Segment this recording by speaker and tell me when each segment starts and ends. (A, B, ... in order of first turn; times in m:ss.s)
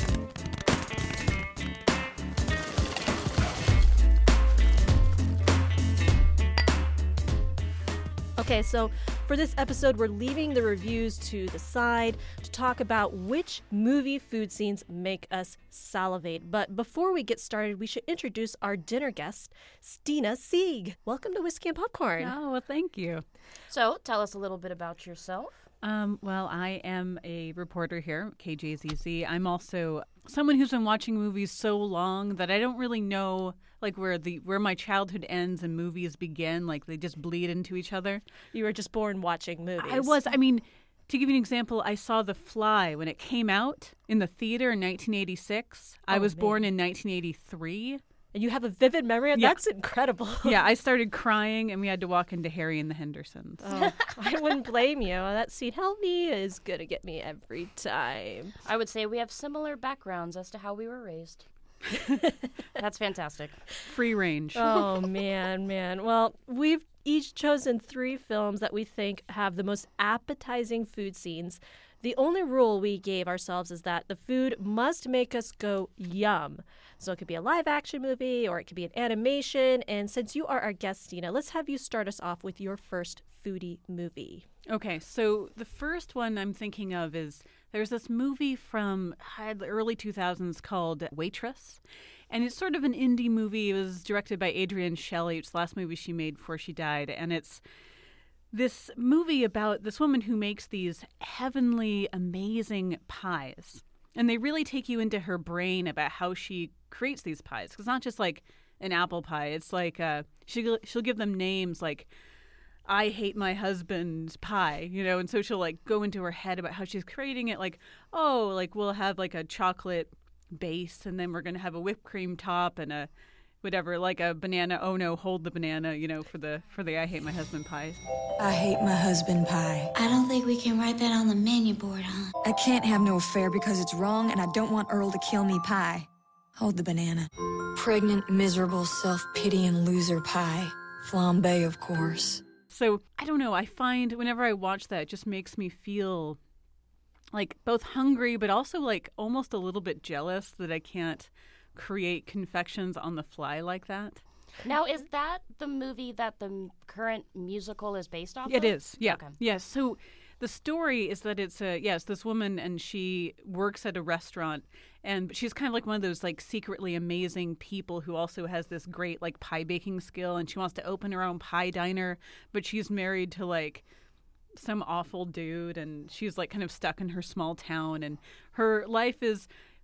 0:08.4-0:22.3 A
0:22.2-0:23.2 B
0:23.7-0:25.6 C
0:25.8-0:38.2 B
0:38.5-0:40.2 A
0:39.8-0:48.0 B
0:46.1-0:46.6 A
0:48.3-0:50.6 A
0:50.4-0:53.6 B
0:53.6-0:58.5 A
0:53.7-0:54.0 C
0:58.6-1:01.4 C
1:02.8-1:03.7 C
1:03.8-1:04.8 B
1:04.6-1:24.5 A
1:24.7-1:37.6 B
1:38.5-1:52.1 B
1:52.8-2:03.1 B
2:03.6-2:08.0 B
2:08.4-2:09.9 D
2:09.9-2:12.3 E
2:12.4-2:22.4 D
2:22.7-2:26.4 B
2:27.3-2:34.2 B
2:34.6-2:39.4 C
2:38.5-2:53.8 B
2:54.6-2:59.5 B